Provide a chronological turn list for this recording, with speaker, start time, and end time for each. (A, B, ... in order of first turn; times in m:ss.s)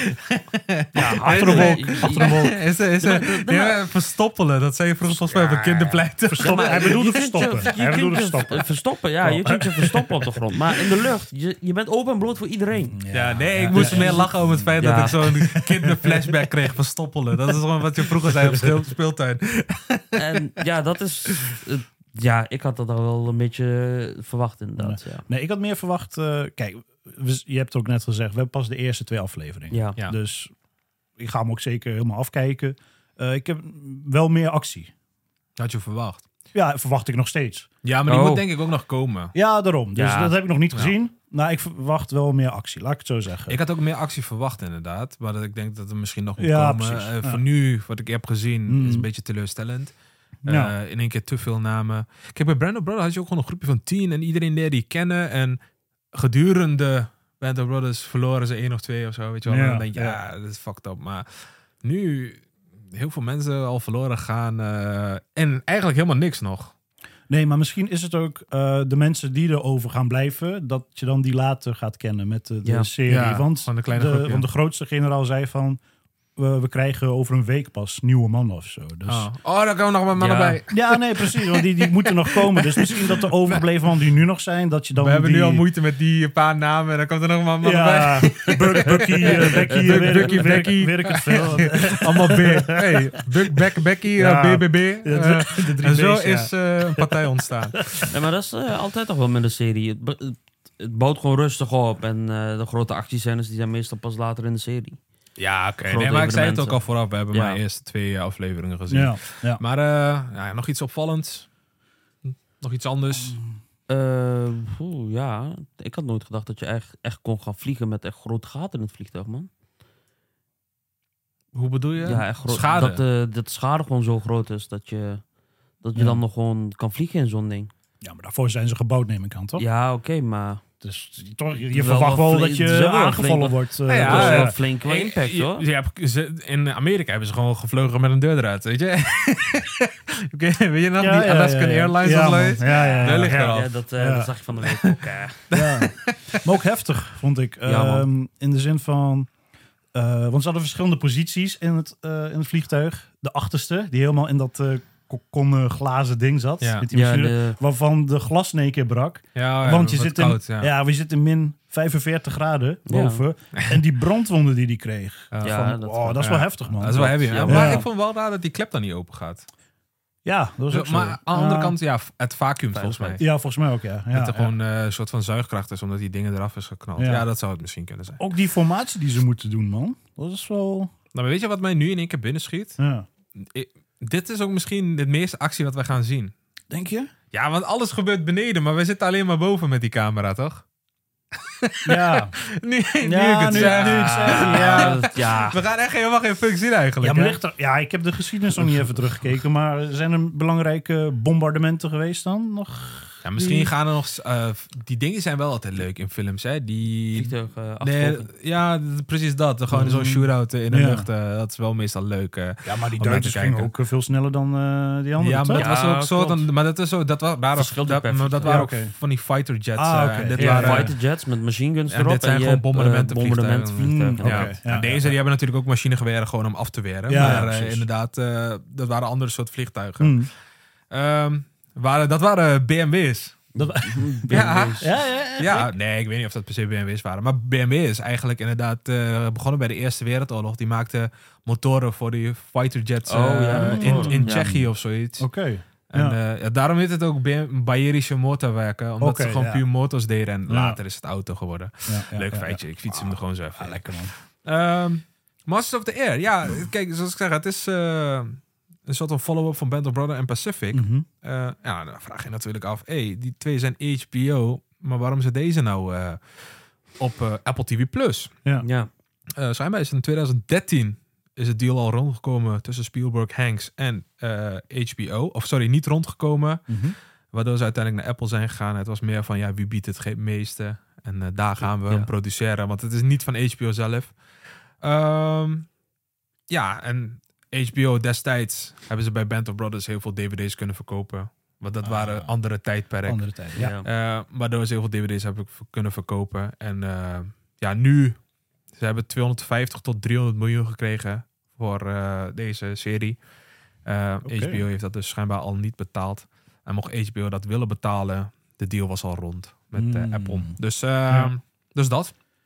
0:00.2-0:07.0 A
0:00.9-0:02.6 B
0:01.0-0:03.8 C
0:05.2-0:13.0 C
0:06.2-0:10.2 B
0:12.9-0:16.4 B
0:13.1-0:20.3 A
0:13.7-0:15.2 C
0:20.1-0:25.2 C
0:24.8-0:30.5 B
0:29.7-0:30.0 C
0:31.2-0:34.9 B
0:35.6-0:36.2 A
0:36.5-0:37.7 B
0:37.8-0:39.3 A
0:38.1-0:38.5 C
0:39.3-0:43.6 B
0:40.0-0:40.4 C
0:43.5-0:55.6 A
0:46.4-0:47.4 B
0:48.7-0:49.1 B
0:50.4-0:50.7 B
0:56.1-1:01.3 A
0:59.4-1:00.2 B
1:01.8-1:06.7 A
1:07.3-1:15.8 B
1:12.6-1:12.9 C
1:13.0-1:14.4 A
1:16.4-1:19.3 B
1:19.0-1:21.7 A
1:20.1-1:20.6 C
1:20.7-1:25.6 B
1:22.4-1:23.6 A
1:25.0-1:38.1 A
1:27.6-1:33.0 B
1:34.2-1:37.2 B
1:37.7-1:38.0 B
1:38.1-1:45.0 C
1:45.4-1:51.5 A
1:45.8-1:47.6 C
1:48.9-1:49.6 B
1:52.2-1:53.4 A
1:53.9-1:59.5 C
2:01.5-2:03.0 A
2:02.0-2:05.2 C
2:05.8-2:07.7 C
2:05.9-2:06.2 B
2:08.0-2:09.6 B
2:09.6-2:10.6 C
2:10.8-2:14.6 B
2:11.7-2:15.6 C
2:13.9-2:23.7 A
2:21.0-2:24.3 B
2:22.7-2:25.5 C
2:25.5-2:29.3 B
2:25.5-2:26.4 A
2:27.6-2:28.1 C
2:29.9-2:47.8 B
2:36.6-2:36.9 A
2:36.9-2:37.6 C
2:39.3-2:40.7 A
2:42.9-2:43.2 C
2:45.3-2:49.4 A
2:45.4-2:47.9 C
2:50.2-2:51.8 B
2:50.7-2:53.2 A
2:52.7-2:53.2 C
2:53.2-2:54.5 B
2:54.1-2:58.2 A
2:57.0-2:57.3 B
2:58.2-3:00.9 B
3:01.1-3:02.8 A
3:02.8-3:03.0 B
3:03.4-3:06.3 A
3:06.7-3:07.1 B
3:07.3-3:10.6 A
3:11.6-3:17.4 A
3:11.8-3:12.4 B
3:13.0-3:15.0 B
3:13.5-3:15.6 C
3:17.0-3:23.6 B
3:18.6-3:18.9 A
3:23.2-3:33.7 A
3:27.1-3:28.3 C
3:29.7-3:31.1 B
3:32.6-3:35.7 B
3:35.2-3:41.0 A
3:35.5-3:36.5 C
3:37.5-3:38.7 C
3:38.4-3:38.9 B
3:39.7-3:40.9 B
3:40.4-3:44.5 C
3:41.9-3:50.3 A
3:43.8-3:45.2 B
3:47.1-3:47.8 B
3:47.1-3:47.5 C
3:50.0-3:50.3 B
3:50.9-3:53.5 A
3:53.6-3:54.9 C
3:53.6-3:55.7 B
3:54.3-4:05.3 A
4:03.0-4:04.6 C
4:03.5-4:04.6 B
4:05.2-4:06.2 B
4:05.9-4:26.4 A
4:09.0-4:09.6 B
4:10.5-4:10.8 B
4:11.8-4:14.1 B
4:20.7-4:21.0 B
4:27.0-4:28.3 A
4:28.6-4:28.9 C
4:29.4-4:36.8 A
4:36.7-4:36.9 B
4:37.3-4:44.1 A
4:44.8-4:45.7 A
4:46.5-4:58.2 A
4:51.8-4:52.3 B
4:53.0-4:53.7 B
4:53.6-4:53.9 C
4:58.7-5:03.2 A
5:03.8-5:12.1 A
5:04.2-5:04.6 B
5:09.7-5:11.3 B